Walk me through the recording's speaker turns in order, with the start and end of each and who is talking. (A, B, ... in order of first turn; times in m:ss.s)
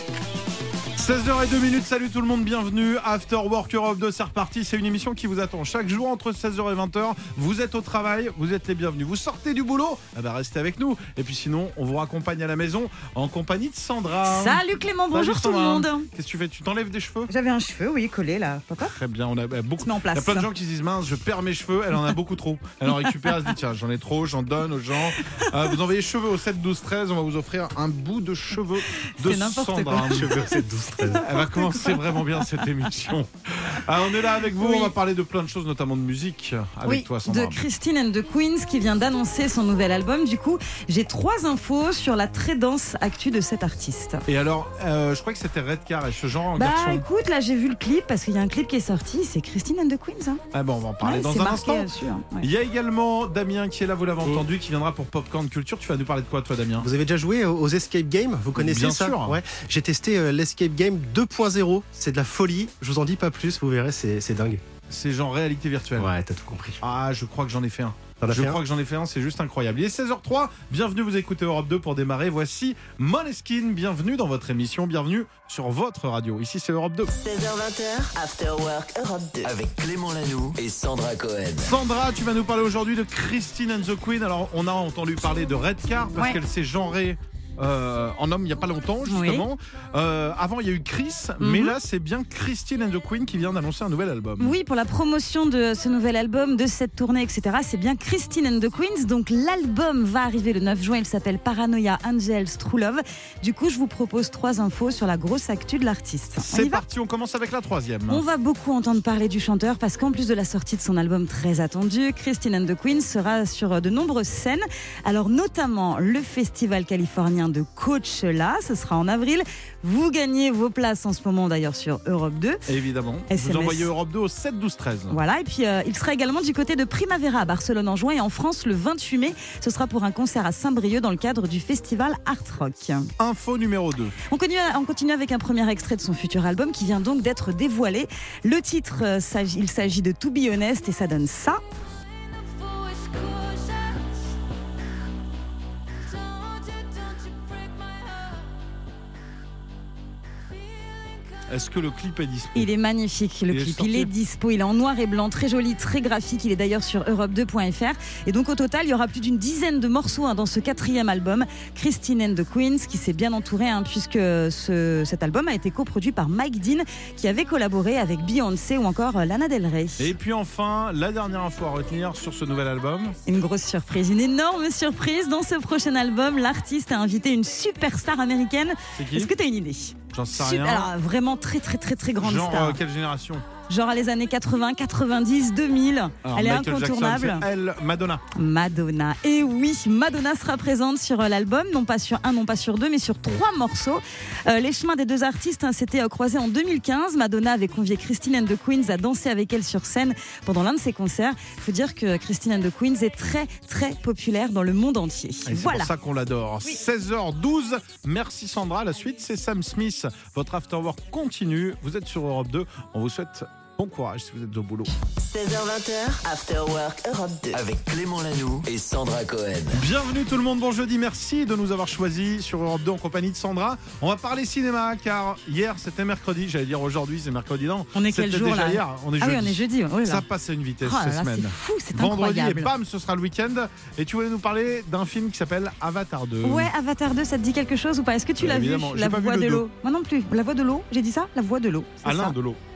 0:01.0-0:14.6 A
0:14.2-0:16.1 B
0:15.1-0:17.3 A
0:17.3-0:18.9 B
0:18.8-0:30.6 A
0:19.8-0:20.5 B
0:22.9-0:23.4 B
0:25.2-0:25.5 B
0:29.2-0:30.6 B
0:30.1-0:31.3 C
0:31.1-0:32.0 B
0:31.1-0:37.6 A
0:34.6-0:34.9 B
0:36.8-0:44.2 B
0:44.3-0:47.0 A
0:46.6-0:50.4 B
0:50.5-0:51.9 A
0:51.0-0:52.5 B
0:52.4-0:56.9 A
0:56.8-1:04.6 C
0:58.6-0:59.4 A
1:04.9-1:06.1 A
1:06.0-1:06.8 C
1:06.8-1:17.1 A
1:08.2-1:08.6 C
1:17.1-1:19.5 D
1:19.4-1:21.7 E
1:21.6-1:34.6 A
1:29.1-1:29.5 B
1:31.4-1:31.8 B
1:34.4-1:46.8 B
1:46.4-1:48.2 A
1:48.1-2:02.7 B
2:02.7-2:05.2 A
2:03.3-2:03.9 B
2:05.1-2:13.1 B
2:13.2-2:14.2 A
2:14.3-2:21.6 B
2:31.5-2:32.7 A
2:32.6-2:50.1 B
2:33.5-2:34.1 A
2:50.0-2:53.2 A
2:53.3-3:02.8 B
2:59.0-2:59.3 A
3:00.1-3:00.9 A
3:02.2-3:03.4 A
3:03.7-3:07.4 B
3:06.2-3:08.2 A
3:08.4-3:25.9 B
3:25.5-3:34.9 A
3:35.2-3:37.6 D
3:37.5-3:39.8 E
3:39.7-3:56.7 A
3:48.0-3:50.2 B
3:50.8-3:52.7 B
3:56.4-4:02.3 B
3:58.4-3:59.6 A
4:02.0-4:02.6 A